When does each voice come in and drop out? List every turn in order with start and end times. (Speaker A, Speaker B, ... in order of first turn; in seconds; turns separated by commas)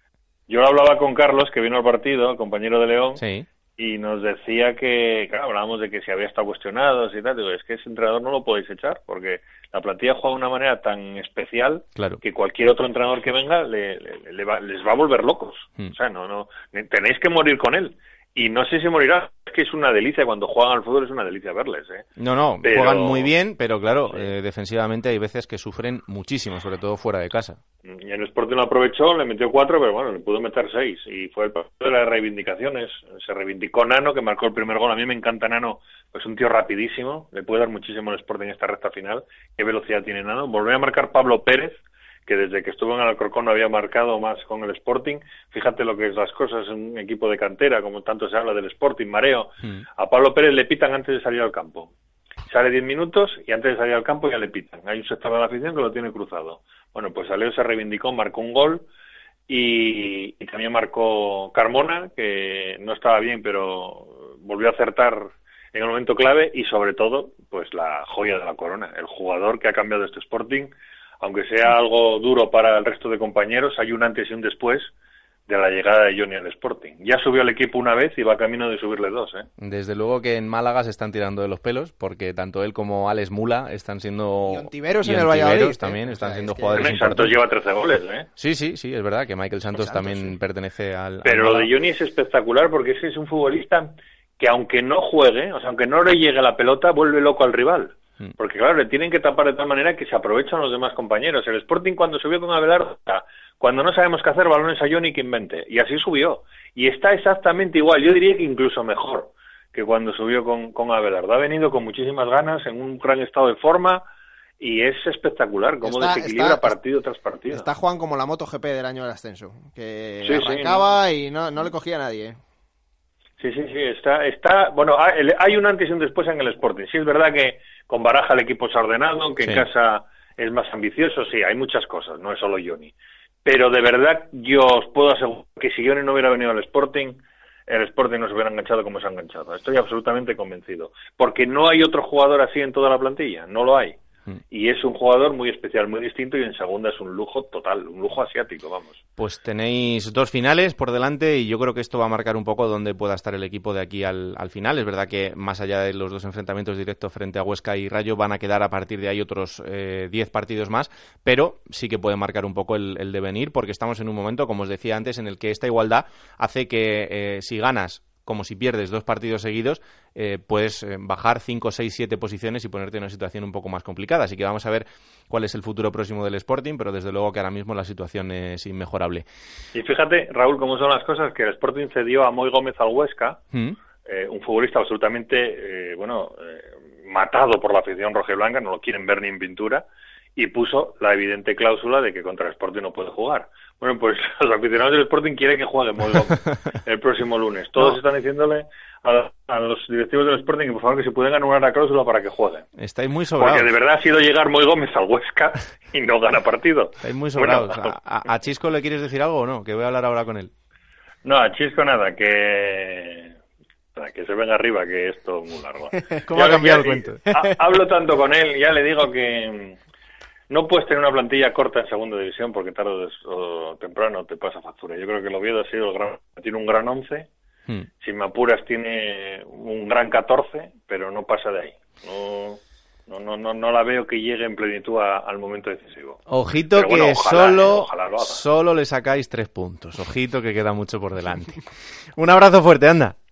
Speaker A: 0.5-3.2, Speaker B: 3.2-3.5, Speaker A: 3.8-22.0, Speaker B: 22.2-27.6, Speaker A: 22.6-23.3, Speaker A: 27.8-51.9, Speaker A: 52.5-58.9, Speaker A: 59.5-74.9, Speaker A: 75.5-79.5, Speaker B: 79.6-87.4, Speaker C: 84.5-87.1, Speaker A: 86.8-88.3, Speaker B: 88.4-91.7, Speaker C: 89.7-90.3, Speaker A: 91.2-114.0, Speaker A: 114.6-117.7, Speaker C: 115.8-116.8, Speaker C: 117.5-122.4, Speaker A: 120.2-120.8, Speaker A: 123.4-132.9, Speaker B: 129.4-129.7, Speaker A: 133.4-144.0, Speaker A: 144.5-149.0, Speaker B: 149.2-179.2, Speaker A: 179.7-183.4, Speaker B: 183.5-183.8, Speaker A: 184.0-189.8, Speaker A: 190.3-202.7, Speaker B: 202.8-203.7, Speaker A: 203.3-207.9, Speaker B: 207.0-210.5, Speaker A: 211.2-213.3, Speaker A: 213.9-219.8, Speaker B: 216.3-217.4, Speaker A: 220.5-227.3, Speaker A: 228.0-238.4, Speaker B: 236.3-241.6, Speaker B: 242.2-243.2